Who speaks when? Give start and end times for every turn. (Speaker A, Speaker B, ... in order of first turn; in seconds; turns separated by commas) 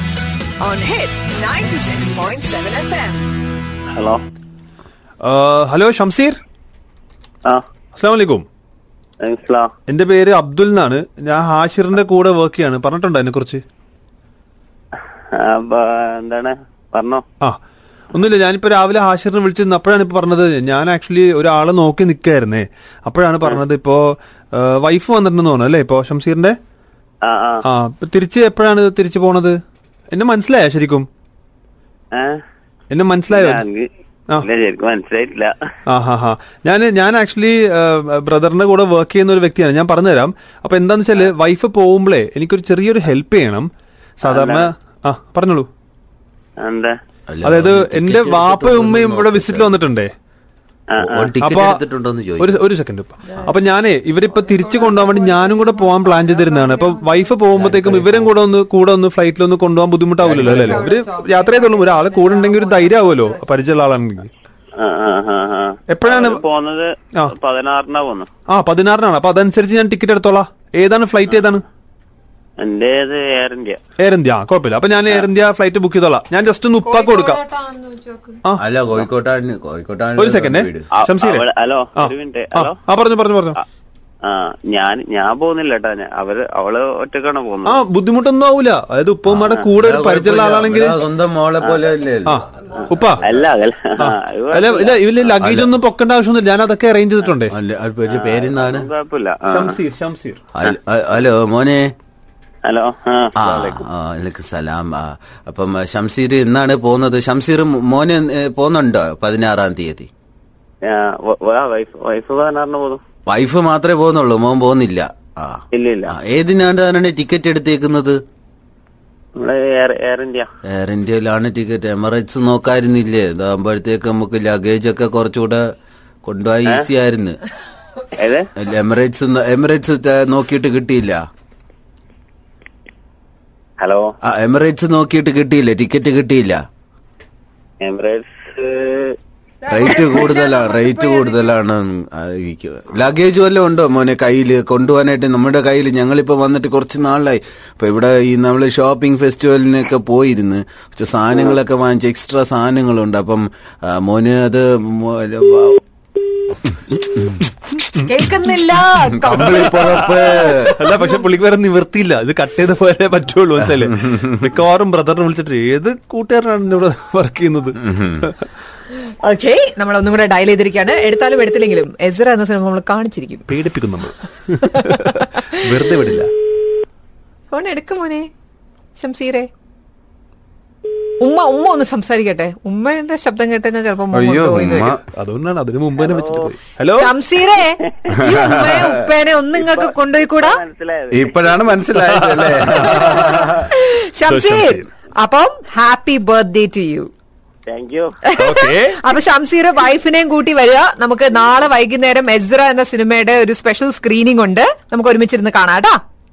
Speaker A: 0.6-3.2, Speaker B: 4.0-4.2, Speaker C: 5.2-6.4, Speaker C: 8.0-8.5, Speaker B: 9.2-9.7, Speaker C: 9.9-13.6, Speaker B: 15.3-17.2, Speaker C: 18.1-26.6, Speaker B: 27.2-27.6, Speaker C: 27.7-29.6, Speaker C: 30.1-31.1, Speaker B: 32.1-32.4, Speaker C: 32.9-33.6, Speaker B: 33.3-33.9, Speaker B: 34.4-35.5, Speaker C: 35.9-43.7, Speaker C: 44.2-45.7, Speaker B: 44.2-44.7, Speaker B: 46.6-46.9, Speaker D: 47.3-49.7, Speaker C: 47.4-50.1, Speaker B: 50.9-51.4, Speaker D: 51.0-52.6, Speaker C: 51.4-51.8, Speaker C: 52.4-64.3, Speaker A: 54.4-57.3, Speaker D: 57.5-58.3, Speaker D: 60.2-60.9, Speaker A: 60.5-63.4, Speaker B: 64.8-68.3, Speaker C: 65.9-66.4, Speaker C: 68.5-71.7, Speaker B: 72.6-73.8, Speaker C: 74.0-77.4, Speaker A: 76.8-78.4, Speaker D: 78.6-80.9, Speaker C: 80.2-81.4, Speaker B: 80.9-82.8, Speaker C: 82.0-83.6, Speaker B: 84.3-87.8, Speaker C: 87.7-91.0, Speaker D: 89.3-93.5, Speaker B: 91.6-91.9, Speaker C: 92.3-93.2, Speaker B: 93.2-95.3, Speaker C: 94.0-97.5, Speaker D: 95.4-95.7, Speaker D: 97.5-98.9, Speaker B: 98.1-99.8, Speaker C: 99.5-100.4, Speaker D: 100.5-101.9, Speaker B: 102.7-103.8, Speaker D: 103.4-110.1, Speaker B: 110.9-113.0, Speaker D: 113.3-118.2, Speaker B: 115.7-116.1, Speaker B: 119.4-120.5, Speaker D: 120.7-125.6, Speaker D: 126.2-127.4, Speaker B: 128.2-128.5, Speaker D: 128.6-131.2, Speaker B: 133.8-134.1, Speaker D: 134.2-136.6, Speaker B: 137.8-139.1, Speaker D: 139.7-155.8, Speaker A: 139.7-141.4, Speaker A: 158.1-161.0, Speaker D: 159.2-160.7, Speaker C: 159.6-160.2, Speaker C: 160.7-168.3, Speaker D: 167.8-168.3, Speaker A: 169.2-173.5, Speaker C: 173.5-176.3, Speaker A: 174.6-175.6, Speaker A: 177.5-178.3, Speaker A: 178.9-179.5, Speaker A: 181.2-184.9, Speaker D: 184.1-185.0, Speaker C: 184.9-187.1, Speaker B: 186.0-186.6, Speaker A: 187.0-190.6, Speaker D: 188.3-188.9, Speaker B: 189.5-192.1, Speaker D: 191.1-193.7, Speaker C: 192.1-193.2, Speaker A: 192.9-197.1, Speaker C: 194.2-194.9, Speaker B: 197.7-198.1, Speaker A: 198.2-206.0, Speaker C: 198.4-199.0